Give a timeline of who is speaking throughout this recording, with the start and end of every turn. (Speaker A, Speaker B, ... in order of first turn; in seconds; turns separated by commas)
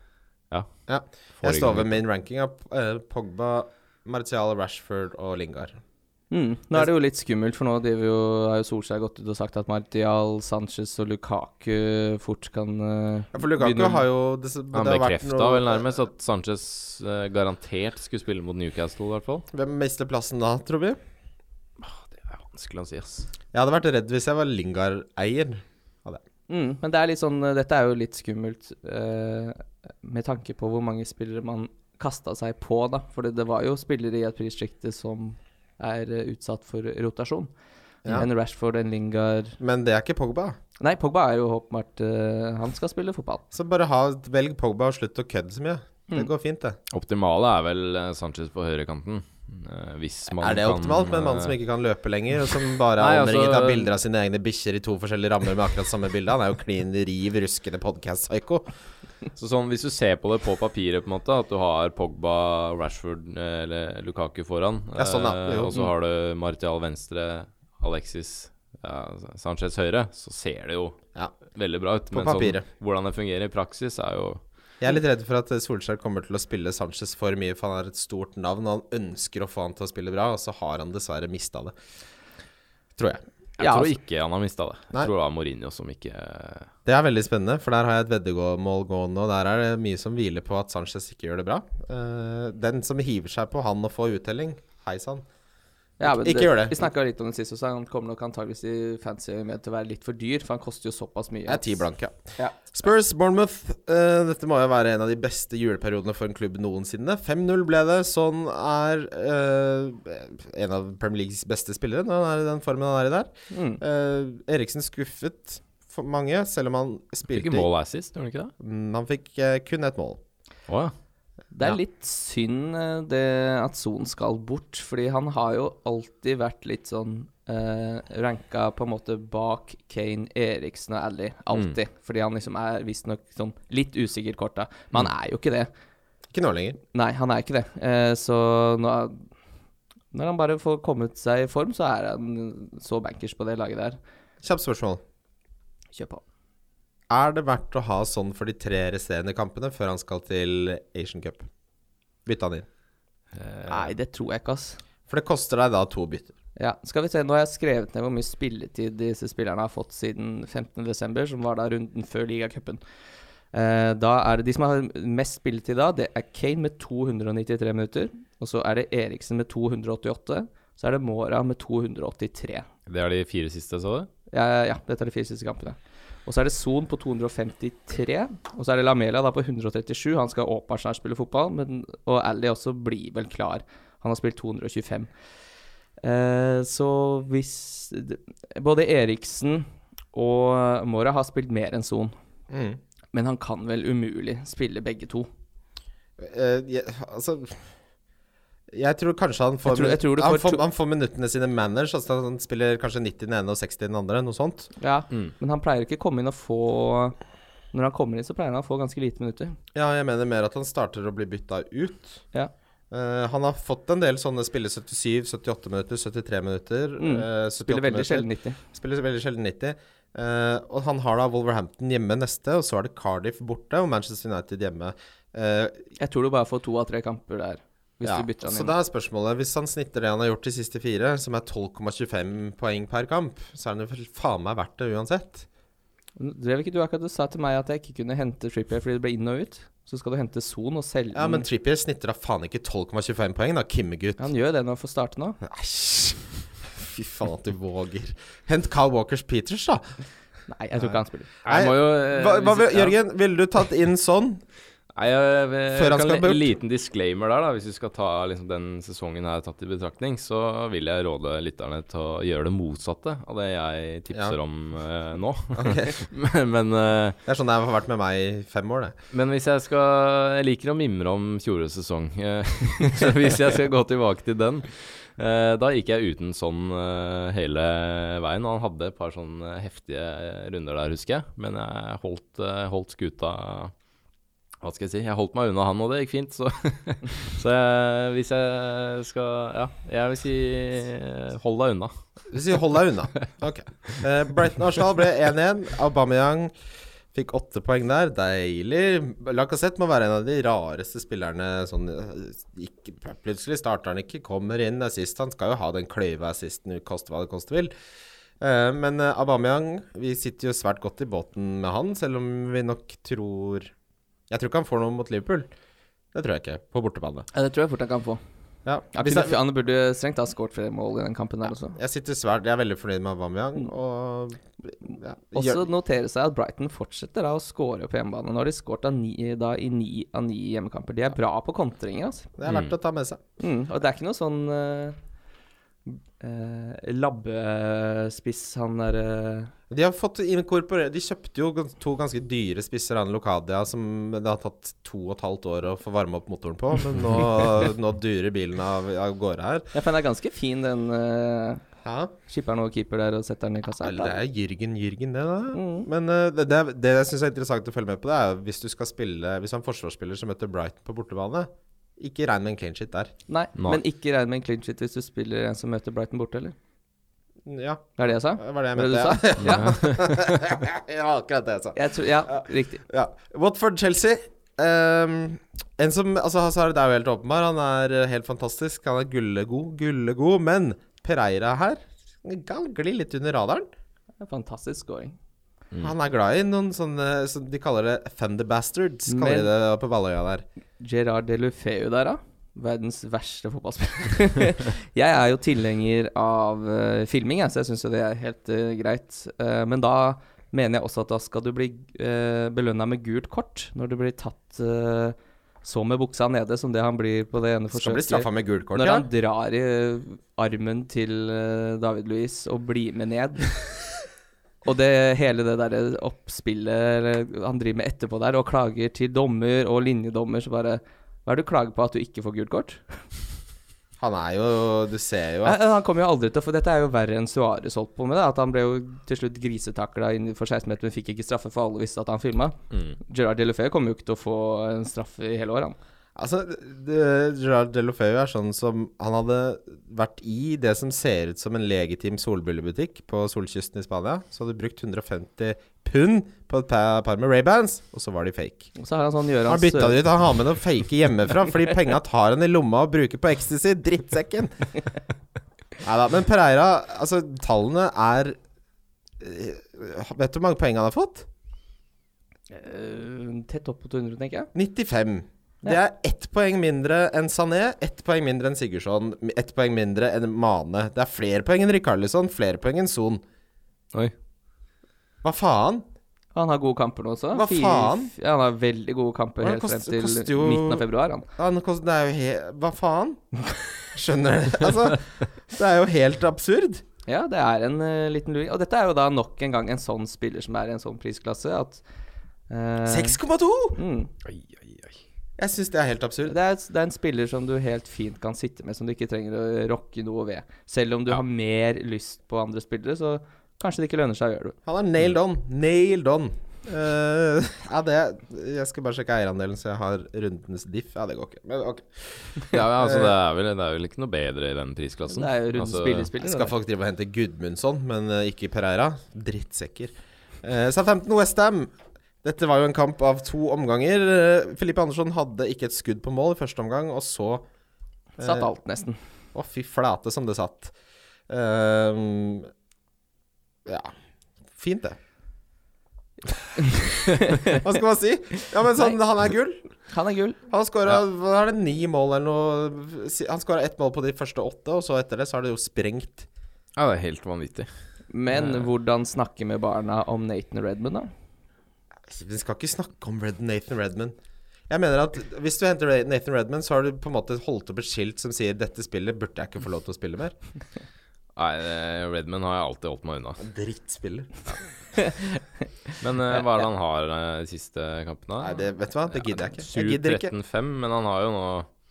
Speaker A: 0.9-5.8, Speaker B: 1.4-2.0, Speaker C: 6.3-14.0, Speaker A: 13.3-15.9, Speaker B: 14.7-19.5, Speaker A: 19.5-21.0, Speaker B: 21.8-23.3, Speaker A: 23.5-26.2, Speaker C: 26.5-37.5, Speaker C: 38.1-39.6, Speaker A: 39.6-40.6, Speaker C: 40.8-43.4, Speaker A: 43.5-46.8, Speaker B: 46.9-51.5, Speaker A: 50.4-58.7, Speaker B: 53.0-53.9, Speaker B: 59.4-71.0, Speaker A: 65.0-65.8, Speaker B: 71.5-74.4, Speaker A: 72.1-72.6, Speaker A: 74.8-81.7, Speaker A: 83.0-83.2, Speaker B: 83.6-86.7, Speaker C: 83.6-84.0, Speaker A: 86.9-95.3, Speaker C: 96.0-101.8, Speaker A: 96.0-96.9, Speaker A: 101.5-117.7, Speaker C: 113.5-113.8, Speaker B: 117.3-118.5, Speaker A: 118.6-120.2, Speaker B: 120.7-120.9, Speaker C: 121.5-135.7, Speaker A: 136.3-136.8, Speaker C: 136.9-139.3, Speaker C: 140.1-144.0, Speaker A: 144.4-145.0, Speaker C: 146.0-146.2, Speaker A: 147.1-151.5, Speaker A: 152.3-152.7, Speaker B: 153.3-153.9, Speaker C: 153.7-154.8, Speaker A: 155.1-156.3, Speaker C: 156.6-162.8, Speaker C: 163.5-172.7, Speaker B: 172.9-174.1, Speaker C: 174.3-185.1, Speaker C: 186.0-192.1, Speaker A: 192.5-192.8, Speaker C: 193.1-195.3, Speaker A: 196.2-197.6, Speaker A: 198.7-204.7, Speaker C: 199.7-200.6, Speaker C: 204.8-207.2, Speaker C: 207.7-209.6, Speaker A: 209.7-212.2, Speaker A: 212.9-225.8, Speaker C: 217.0-218.6, Speaker C: 226.0-228.7, Speaker A: 228.0-235.5, Speaker C: 236.2-241.5, Speaker A: 241.1-244.2, Speaker C: 244.2-245.4, Speaker A: 245.4-250.0, Speaker C: 250.5-251.3, Speaker B: 251.4-253.0, Speaker A: 251.5-254.4, Speaker B: 254.9-267.2, Speaker A: 255.7-256.5, Speaker A: 265.6-265.9, Speaker A: 267.3-269.0, Speaker B: 269.1-283.7, Speaker B: 284.6-291.9, Speaker A: 292.3-296.5, Speaker A: 297.1-307.7, Speaker A: 308.4-313.7, Speaker A: 314.3-315.5, Speaker A: 316.1-317.3, Speaker C: 317.3-318.2, Speaker A: 318.7-319.4, Speaker C: 318.9-321.8, Speaker A: 321.8-325.6, Speaker C: 325.3-332.3, Speaker A: 332.4-333.2, Speaker B: 332.5-332.7, Speaker C: 333.4-335.0, Speaker C: 335.9-339.5, Speaker A: 339.7-349.7, Speaker C: 349.7-351.6, Speaker A: 351.8-352.1, Speaker C: 352.3-354.2, Speaker A: 353.8-363.1, Speaker C: 355.5-355.9, Speaker C: 363.3-366.6, Speaker A: 367.5-383.7, Speaker C: 368.0-369.8, Speaker B: 369.4-370.3, Speaker C: 371.8-372.8, Speaker C: 384.2-385.2, Speaker A: 385.8-390.5, Speaker C: 389.1-389.5, Speaker C: 390.8-413.6, Speaker A: 407.7-409.1, Speaker C: 414.6-423.0, Speaker A: 424.0-425.6, Speaker C: 425.4-435.8, Speaker B: 432.7-433.0, Speaker A: 436.2-448.7, Speaker C: 448.8-450.0, Speaker A: 449.5-454.6, Speaker A: 455.8-458.4, Speaker A: 459.2-461.3, Speaker C: 462.5-464.5, Speaker A: 464.5-473.2, Speaker A: 475.2-475.9, Speaker C: 476.4-481.3, Speaker A: 477.3-478.1, Speaker A: 479.4-483.2, Speaker A: 483.9-486.8, Speaker C: 487.1-491.8, Speaker C: 492.5-493.2, Speaker A: 492.9-493.8, Speaker C: 493.8-494.1, Speaker B: 494.2-495.0, Speaker A: 495.4-496.4, Speaker C: 496.3-504.6, Speaker A: 504.7-513.1, Speaker B: 512.5-516.1, Speaker C: 515.1-516.5, Speaker A: 516.2-527.5, Speaker A: 528.2-528.5, Speaker C: 528.2-529.0, Speaker A: 529.3-530.7, Speaker A: 531.3-532.5, Speaker A: 533.7-533.9, Speaker A: 534.5-535.0, Speaker C: 537.2-537.6, Speaker A: 537.5-539.6, Speaker C: 539.9-540.4, Speaker A: 540.5-546.3, Speaker B: 546.8-547.7, Speaker C: 548.1-551.1, Speaker B: 548.3-548.6, Speaker A: 552.1-554.1, Speaker A: 554.7-560.4, Speaker B: 561.4-563.4, Speaker A: 563.4-564.5, Speaker C: 565.0-565.4, Speaker C: 565.9-566.4, Speaker B: 566.0-571.7, Speaker A: 568.4-570.3